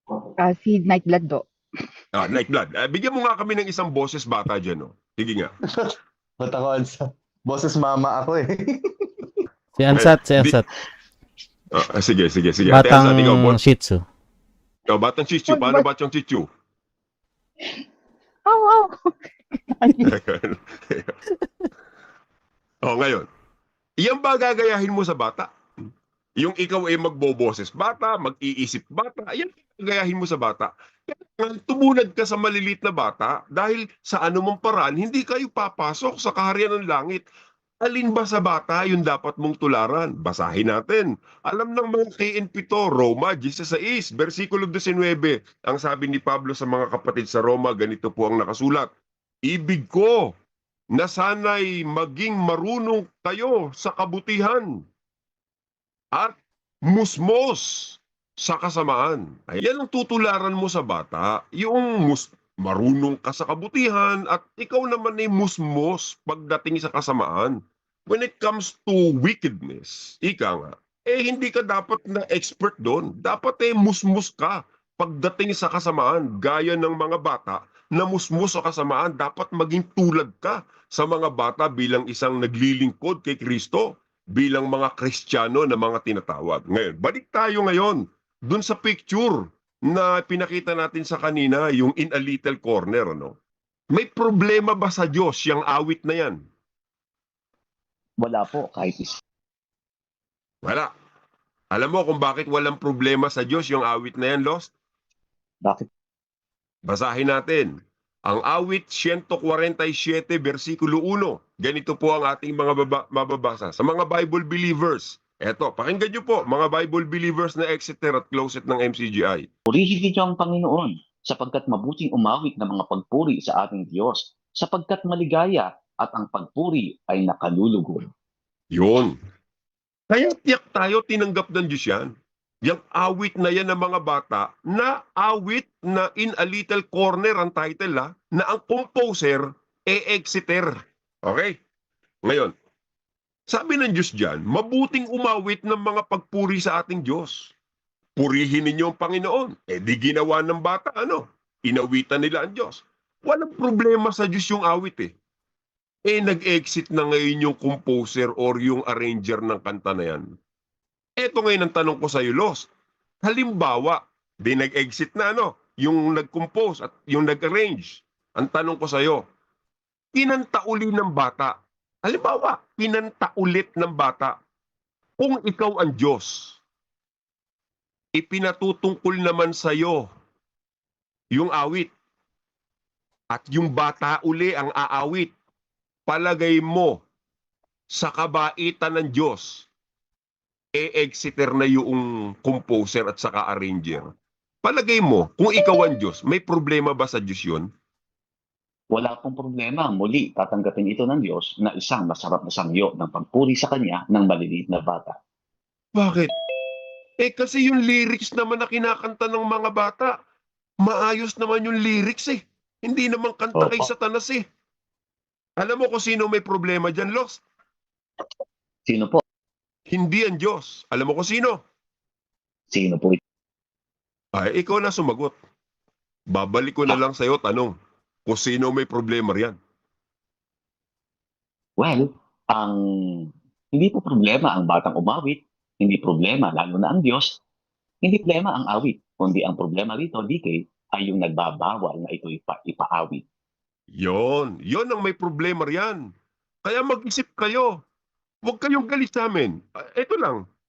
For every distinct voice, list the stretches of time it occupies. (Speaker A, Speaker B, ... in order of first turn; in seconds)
Speaker A: 0.4-1.4, 15.5-15.9, 18.5-19.1, 19.7-20.1
Speaker B: 2.1-5.5, 9.9-10.6, 11.7-13.6, 14.9-16.5, 20.0-21.2, 22.8-23.3, 24.0-25.5, 26.4-37.2, 37.8-48.9, 49.5-50.3, 50.9-54.7, 56.9-67.5, 68.1-93.3, 93.9-96.4, 100.6-100.9, 101.7-104.7, 106.9-107.7, 108.3-119.5, 128.7-129.2, 130.1-132.1, 132.7-140.7, 141.2-141.6, 142.3-142.5, 143.5-147.5, 148.2-155.1, 156.1-160.2, 161.2-162.7, 163.2-169.2, 170.2-174.3, 175.2-176.6, 178.2-180.1, 181.3-181.9, 183.3-185.3, 186.1-187.0, 187.9-189.7, 190.8-194.1, 194.6-197.7, 206.0-206.3, 207.2-210.2, 210.8-214.4, 215.6-217.4, 219.9-221.6, 224.3-225.3, 226.3-227.7, 228.3-229.6, 244.0-246.1, 246.7-247.8, 248.4-250.4
Speaker C: 5.7-9.2
Speaker D: 9.8-10.7, 12.7-14.0
Speaker E: 98.2-99.2, 119.7-128.1, 198.9-205.2, 213.6-213.9, 218.9-219.2, 222.7-223.2, 231.8-237.4, 238.0-243.2